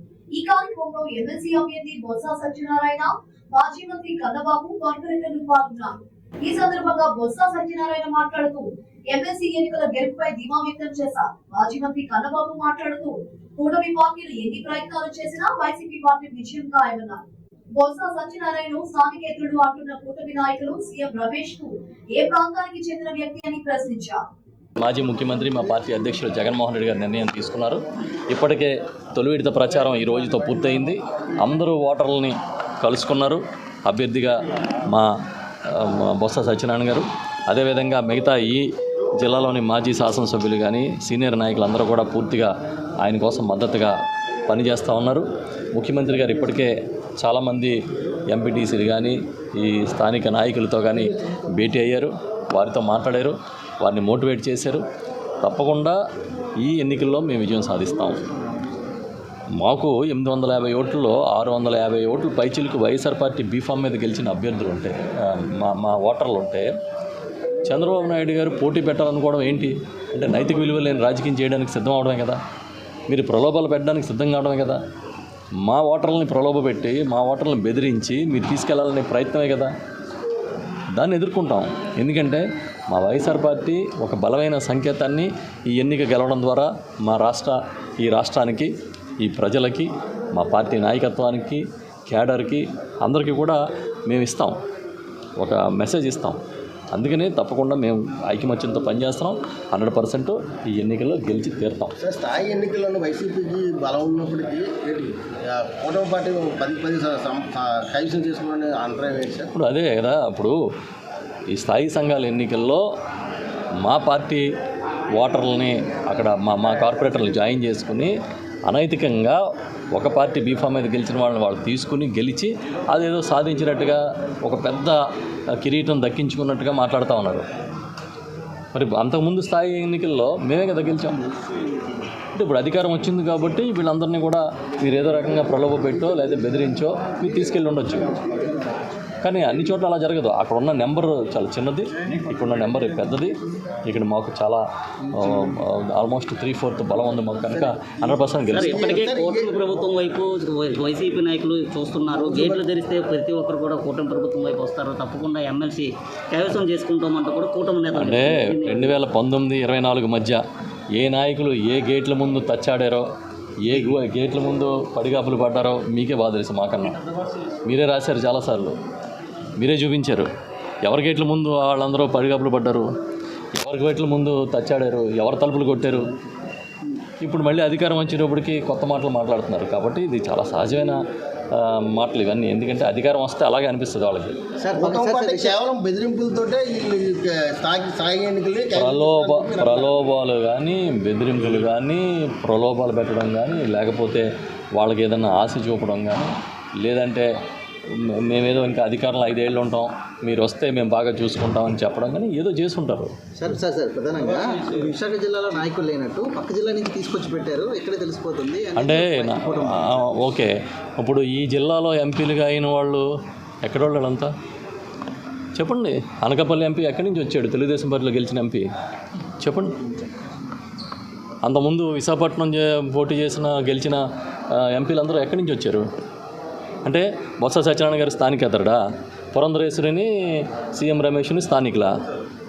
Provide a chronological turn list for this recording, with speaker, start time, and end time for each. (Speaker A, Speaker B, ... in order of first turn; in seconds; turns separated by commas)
Speaker A: 0.3-17.2, Speaker A: 17.8-24.2, Speaker B: 24.8-34.4, Speaker B: 35.7-38.7, Speaker B: 39.2-42.5, Speaker B: 43.0-43.9, Speaker B: 44.5-47.7, Speaker B: 48.3-54.8, Speaker B: 55.4-56.0, Speaker B: 56.6-58.2, Speaker B: 59.6-66.7, Speaker B: 67.7-72.4, Speaker B: 73.1-74.8, Speaker B: 75.6-79.7, Speaker B: 80.9-94.6, Speaker B: 95.4-96.4, Speaker B: 96.9-101.9, Speaker C: 102.0-109.5, Speaker B: 109.5-110.5, Speaker B: 111.5-112.8, Speaker B: 113.8-114.4, Speaker B: 115.1-118.1, Speaker B: 118.7-119.4, Speaker B: 119.9-125.0, Speaker B: 125.5-127.4, Speaker B: 128.7-131.3, Speaker B: 132.3-138.1, Speaker B: 139.2-149.0, Speaker D: 148.5-159.0, Speaker C: 148.6-149.8, Speaker C: 152.1-152.6, Speaker B: 157.9-160.4, Speaker B: 160.9-163.1, Speaker B: 163.6-167.0, Speaker B: 167.6-168.8, Speaker B: 169.6-170.3, Speaker B: 170.8-172.9, Speaker B: 173.5-176.1, Speaker B: 177.2-184.3, Speaker E: 184.6-185.6, Speaker C: 184.8-189.9, Speaker B: 188.7-197.3, Speaker B: 197.9-203.1, Speaker E: 203.3-210.2, Speaker B: 208.7-213.0, Speaker B: 213.6-214.3, Speaker B: 215.5-218.7, Speaker B: 219.4-219.8, Speaker B: 221.4-224.0, Speaker B: 224.5-225.8, Speaker B: 226.8-228.8, Speaker B: 229.3-231.9